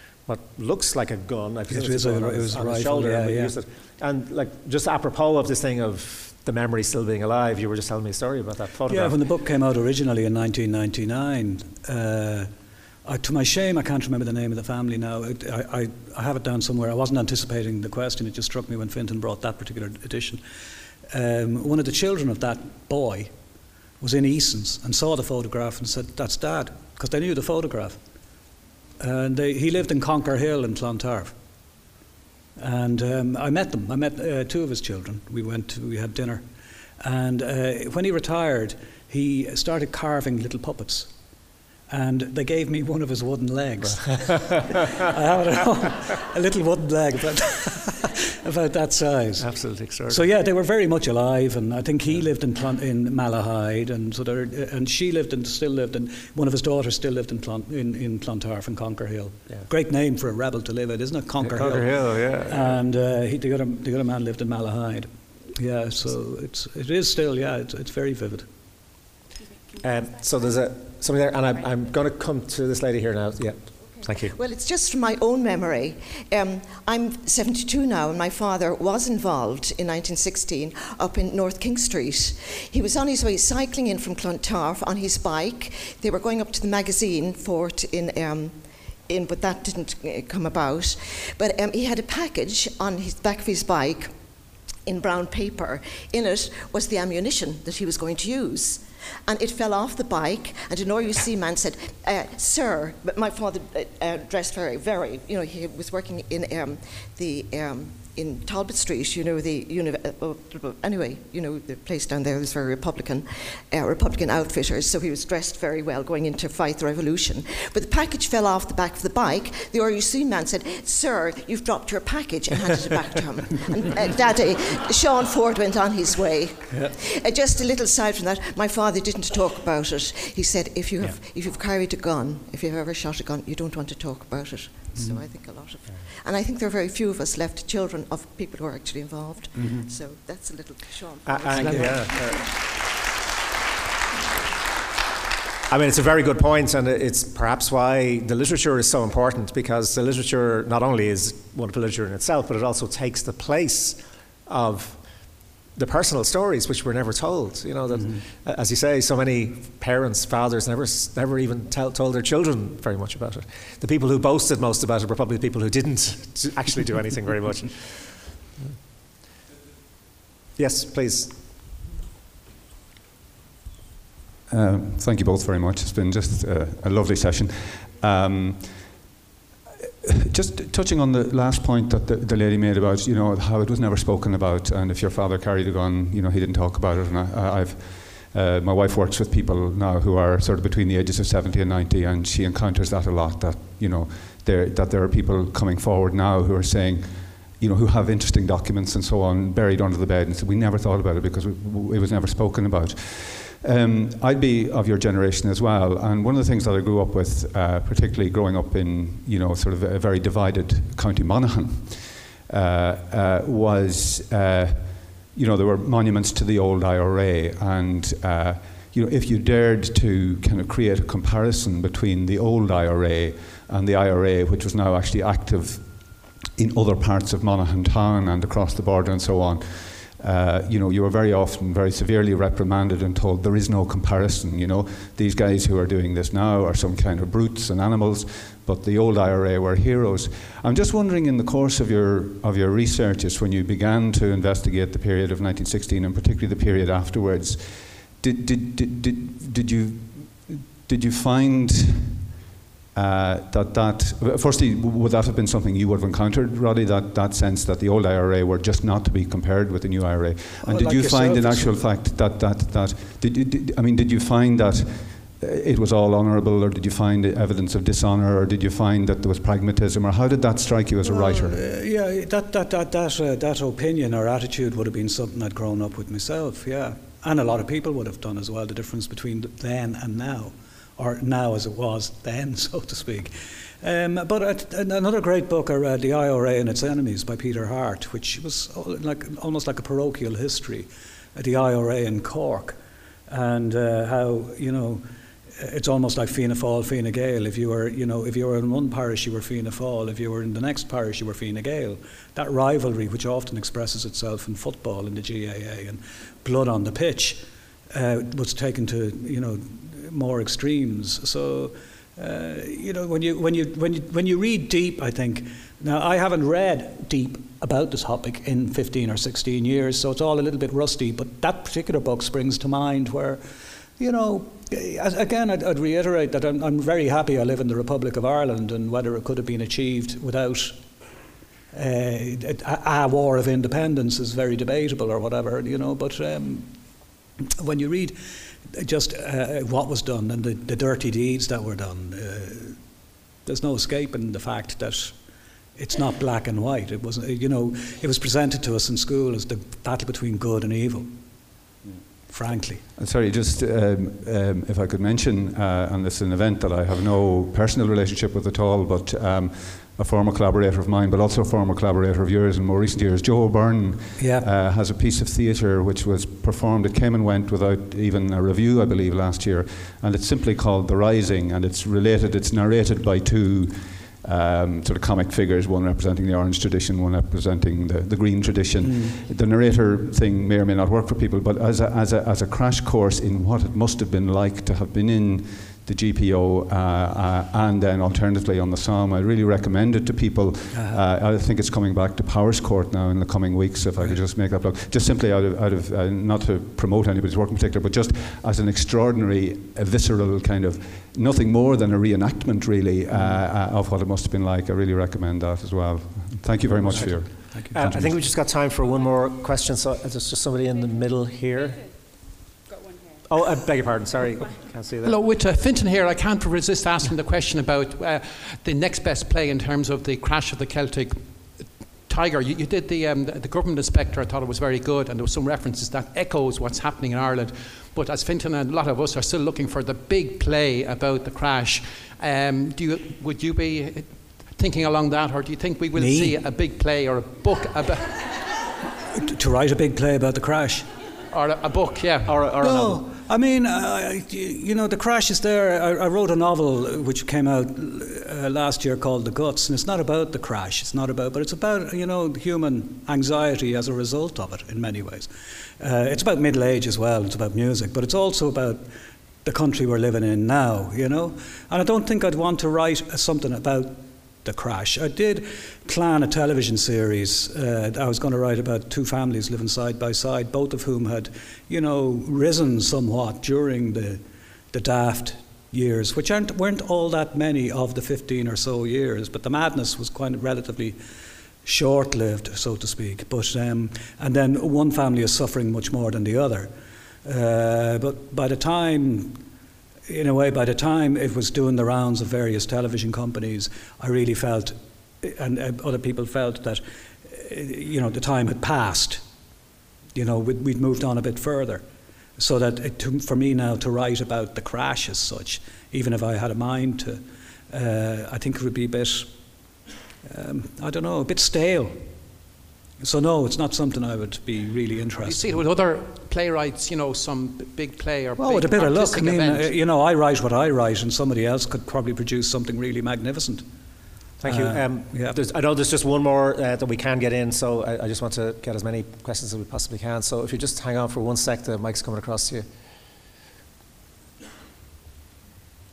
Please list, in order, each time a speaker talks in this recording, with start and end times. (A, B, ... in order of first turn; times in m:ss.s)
0:00.3-0:09.2 A
0:01.7-0:03.5 B
0:08.9-0:12.5 B
0:13.0-0:20.4 B
0:21.1-0:23.3 B
0:24.0-0:28.0 B
0:29.0-0:31.4 B
0:32.6-0:36.4 B
0:37.0-0:41.1 B
0:41.9-0:49.5 B
0:49.4-0:50.3 A
0:50.1-1:08.5 B
1:01.4-1:02.8 A
1:09.8-1:14.4 A
1:14.3-1:34.1 C
1:34.9-2:22.4 C
2:06.7-2:07.0 B
2:15.0-2:15.2 B
2:19.6-2:19.8 B
2:21.2-2:22.5 A
2:21.5-2:22.0 B
2:25.7-2:35.0 A
2:35.7-2:48.8 A
2:37.9-2:38.2 B
2:50.6-2:51.4 A
2:54.5-2:59.0 D
3:00.0-4:12.2 D
4:13.0-4:31.6 D
4:20.6-4:21.8 B
4:31.0-4:55.0 B
4:55.6-5:23.4 B
5:24.0-5:30.8 B
5:31.7-5:36.8 B
5:37.4-5:42.8 B
5:43.4-5:45.2 B
5:45.8-5:51.2 B
5:52.3-5:52.8 B
5:53.0-6:48.2 D
6:04.2-6:04.5 B
6:18.8-6:19.1 B
6:30.7-6:31.0 B
6:34.0-6:34.2 B
6:43.1-6:43.4 B
6:46.6-6:48.1 B
6:47.7-6:51.9 A
6:53.2-6:55.2 A
6:55.0-7:18.4 E
7:16.0-7:16.4 B
7:19.2-7:20.9 B
7:21.3-7:22.8 E
7:22.3-7:23.0 A
7:22.6-7:38.9 B
7:39.4-7:54.2 B
7:54.7-8:01.0 B
8:01.6-8:06.7 B
8:07.2-8:09.4 B
8:10.1-8:19.2 B
8:20.2-8:21.8 B
8:22.4-8:29.3 B
8:30.2-8:32.1 B
8:33.0-8:35.6 B
8:35.2-8:39.8 E
8:38.4-8:43.6 B
8:44.4-8:52.7 A
8:44.4-8:45.4 B